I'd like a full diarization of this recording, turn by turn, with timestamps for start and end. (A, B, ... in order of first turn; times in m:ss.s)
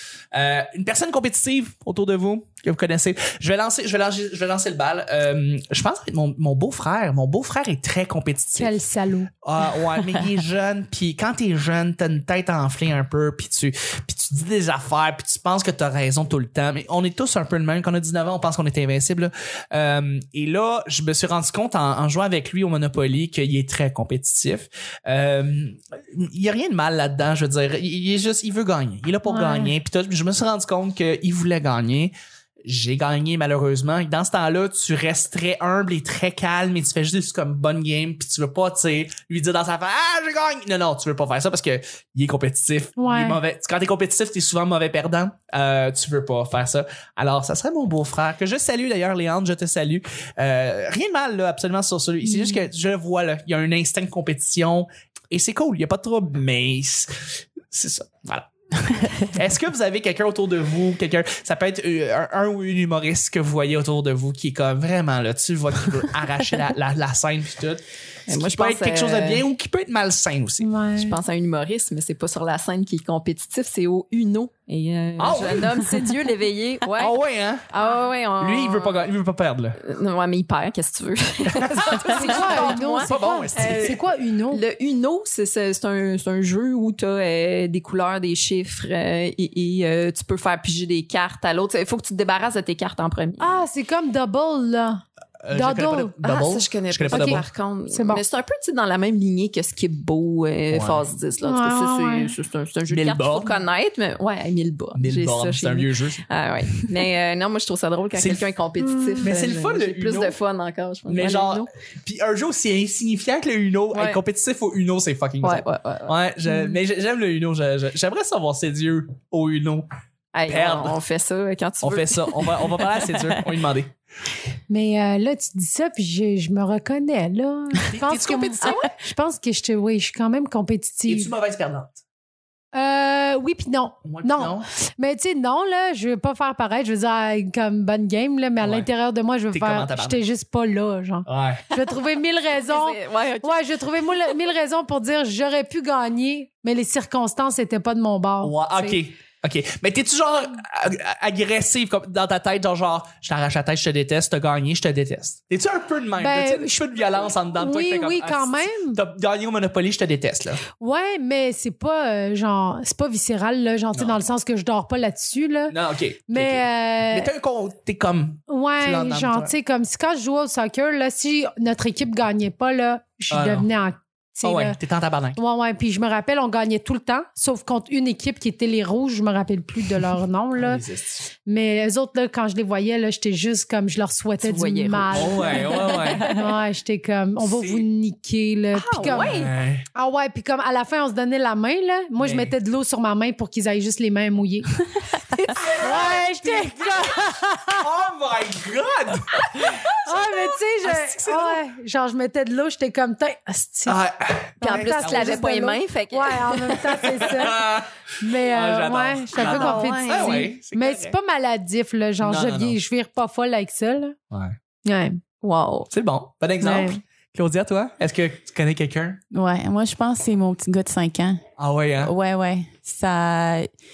0:00.3-0:08.7 A
0:08.6-0:09.3 B
0:09.4-0:32.1 A
0:29.3-0:29.7 B
0:32.6-1:10.7 A
0:43.0-0:43.4 B
0:52.2-0:52.6 B
1:08.3-1:09.4 C
1:10.6-1:11.2 B
1:11.0-1:17.2 C
1:15.2-1:15.9 A
1:17.0-1:17.7 A
1:17.7-1:19.1 C
1:18.4-1:19.8 A
1:19.8-1:33.6 C
1:21.5-1:24.0 A
1:22.1-1:24.6 B
1:33.4-1:36.1 B
1:35.4-1:37.4 A
1:36.2-1:51.7 C
1:37.1-1:38.2 B
1:40.7-1:41.0 A
1:41.4-1:42.3 B
1:42.9-1:43.6 A
1:45.0-1:46.2 A
1:48.2-1:48.5 A
1:48.8-1:49.4 B
1:49.2-1:50.4 A
1:51.1-1:59.9 A
1:53.9-1:54.2 C
1:55.4-1:56.1 C
2:00.3-2:02.9 C
2:00.5-2:01.0 A
2:01.8-2:03.9 A
2:04.7-2:11.3 B
2:07.8-2:08.8 A
2:08.6-2:08.9 C
2:11.1-2:12.0 A
2:12.7-2:29.0 B
2:14.0-2:14.6 A
2:18.6-2:18.9 A
2:19.5-2:20.2 A
2:21.3-2:21.6 A
2:22.5-2:24.4 C
2:28.4-2:40.6 A
2:36.2-2:39.0 B
2:40.8-2:45.8 B
2:45.7-2:49.5 A
2:46.3-2:47.3 B
2:48.5-2:54.8 B
2:53.3-2:53.7 A
2:54.4-2:55.4 A
2:55.4-3:00.8 B
3:00.6-3:01.3 A
3:01.5-3:14.7 B
3:04.4-3:06.5 C
3:05.1-3:06.3 A
3:07.4-3:07.9 A
3:08.8-3:09.5 C
3:09.0-3:09.8 A
3:12.2-3:12.5 A
3:15.3-3:17.8 B
3:15.6-3:16.5 A
3:17.8-3:20.2 A
3:19.8-3:24.0 B
3:20.8-3:21.6 A
3:23.9-3:25.5 A
3:24.6-3:26.8 C
3:24.6-3:27.6 B
3:26.8-3:31.1 A
3:28.2-3:34.2 B
3:29.4-3:30.5 C
3:32.2-3:32.8 A
3:34.3-3:34.6 A
3:34.9-3:35.2 B
3:35.4-3:35.9 C
3:35.9-3:39.2 A
3:36.6-3:37.0 B
3:39.3-3:41.4 D
3:41.6-3:42.1 A
3:42.0-3:43.7 D